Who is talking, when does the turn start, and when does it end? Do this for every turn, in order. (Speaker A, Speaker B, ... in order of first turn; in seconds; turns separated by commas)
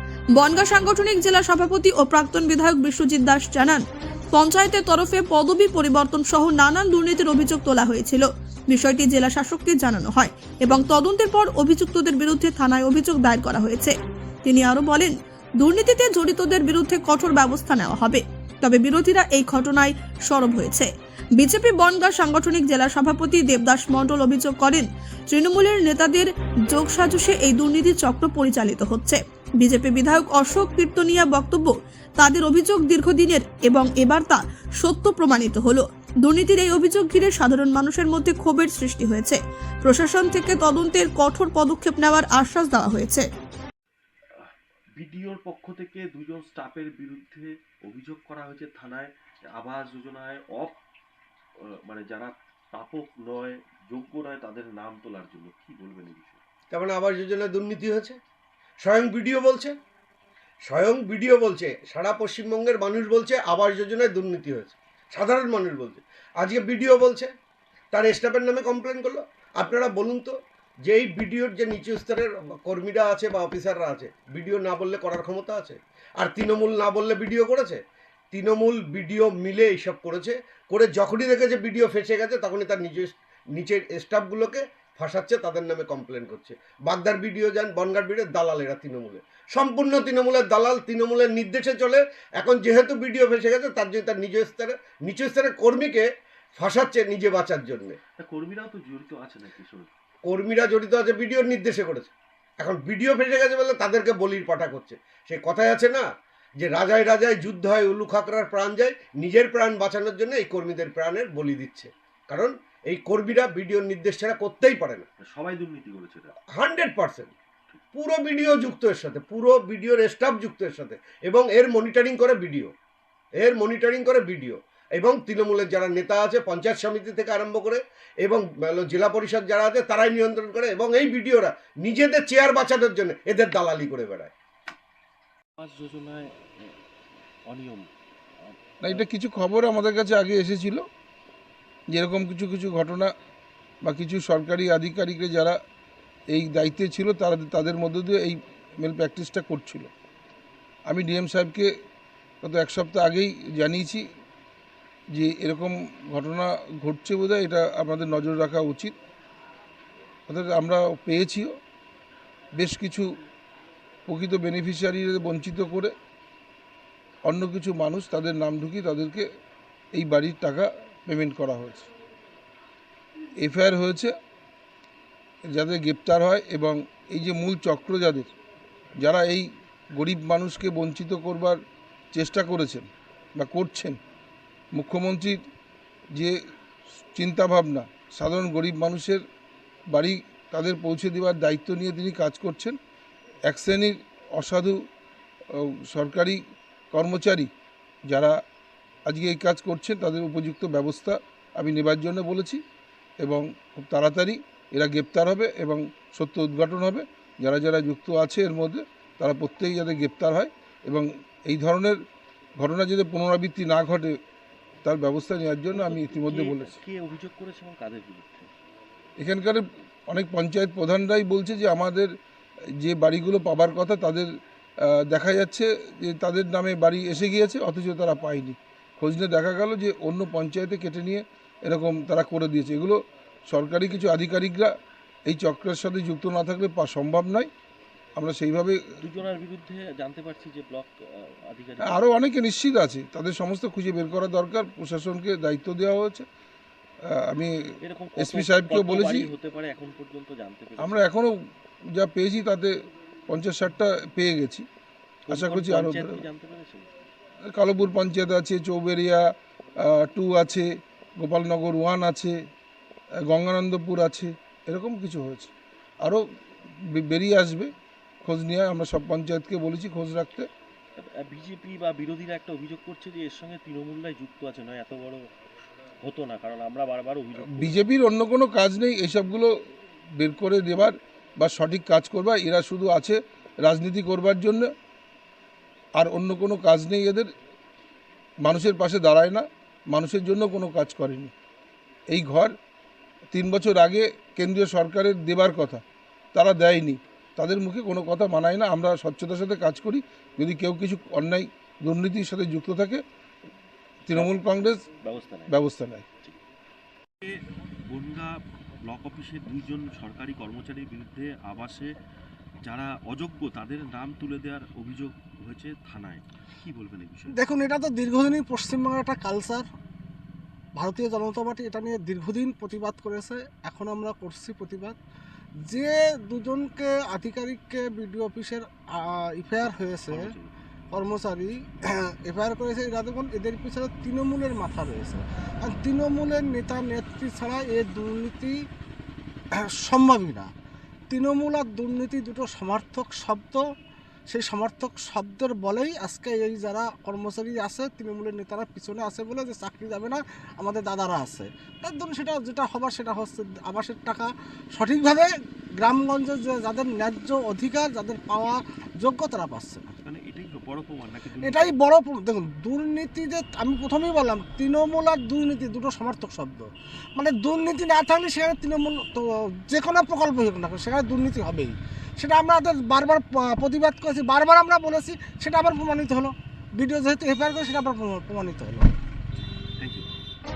Speaker A: 0.3-43.3, Speaker B: 44.3-50.8, Speaker B: 51.6-56.4, Speaker C: 56.7-58.2, Speaker C: 58.8-59.8, Speaker C: 60.6-67.3, Speaker C: 67.9-77.8, Speaker C: 78.3-98.0, Speaker B: 98.2-99.9, Speaker C: 100.2-106.1, Speaker C: 106.6-115.1, Speaker B: 115.2-116.3, Speaker C: 116.5-117.3, Speaker C: 117.9-122.7, Speaker C: 123.4-134.3, Speaker B: 135.6-136.8, Speaker B: 137.5-137.9, Speaker B: 138.4-139.0, Speaker D: 138.8-140.8, Speaker D: 141.9-143.1, Speaker D: 143.8-145.6, Speaker D: 146.3-149.9, Speaker D: 150.9-151.7, Speaker D: 152.4-154.0, Speaker D: 155.1-158.9, Speaker D: 160.3-161.5, Speaker D: 162.6-163.1, Speaker D: 164.1-165.9, Speaker D: 167.3-169.2, Speaker D: 169.9-171.9, Speaker D: 173.4-174.1, Speaker D: 175.5-178.3, Speaker D: 179.0-181.6, Speaker D: 182.1-184.0, Speaker D: 184.7-185.4, Speaker D: 187.1-189.2, Speaker D: 189.9-192.8, Speaker D: 193.5-194.8, Speaker D: 195.5-196.4, Speaker D: 196.9-197.5, Speaker D: 198.1-198.3, Speaker D: 199.1-202.6, Speaker D: 203.2-212.0, Speaker D: 212.6-214.2, Speaker D: 214.8-216.8, Speaker B: 215.7-218.5, Speaker D: 219.2-222.1, Speaker D: 222.8-224.3, Speaker D: 224.8-234.7, Speaker D: 235.3-237.5, Speaker D: 238.2-238.8, Speaker B: 239.0-242.1, Speaker D: 241.8-246.2, Speaker D: 247.1-247.5, Speaker B: 247.8-251.1, Speaker D: 248.2-249.3, Speaker D: 250.8-251.3, Speaker D: 251.9-252.7, Speaker D: 253.3-254.7, Speaker B: 255.3-256.9, Speaker D: 255.3-256.2, Speaker D: 257.5-259.2, Speaker D: 259.8-260.7, Speaker D: 261.2-262.4, Speaker D: 263.2-265.5, Speaker D: 266.9-267.7, Speaker D: 268.2-270.5, Speaker B: 271.0-275.3, Speaker B: 276.0-277.8, Speaker D: 277.5-279.5, Speaker D: 280.2-284.7, Speaker D: 286.0-287.3, Speaker D: 288.4-291.3, Speaker D: 292.1-292.6, Speaker D: 293.3-295.8, Speaker D: 296.3-303.0, Speaker D: 304.1-304.8, Speaker B: 304.1-305.6, Speaker D: 305.5-306.1, Speaker B: 307.2-312.0, Speaker B: 312.6-317.5, Speaker E: 317.3-319.7, Speaker E: 320.7-325.0, Speaker E: 325.6-330.4, Speaker B: 329.6-330.6, Speaker E: 330.9-338.6, Speaker E: 339.5-340.5, Speaker E: 341.1-343.6, Speaker E: 344.3-359.9, Speaker B: 360.0-361.8, Speaker E: 361.4-378.9, Speaker B: 379.8-380.1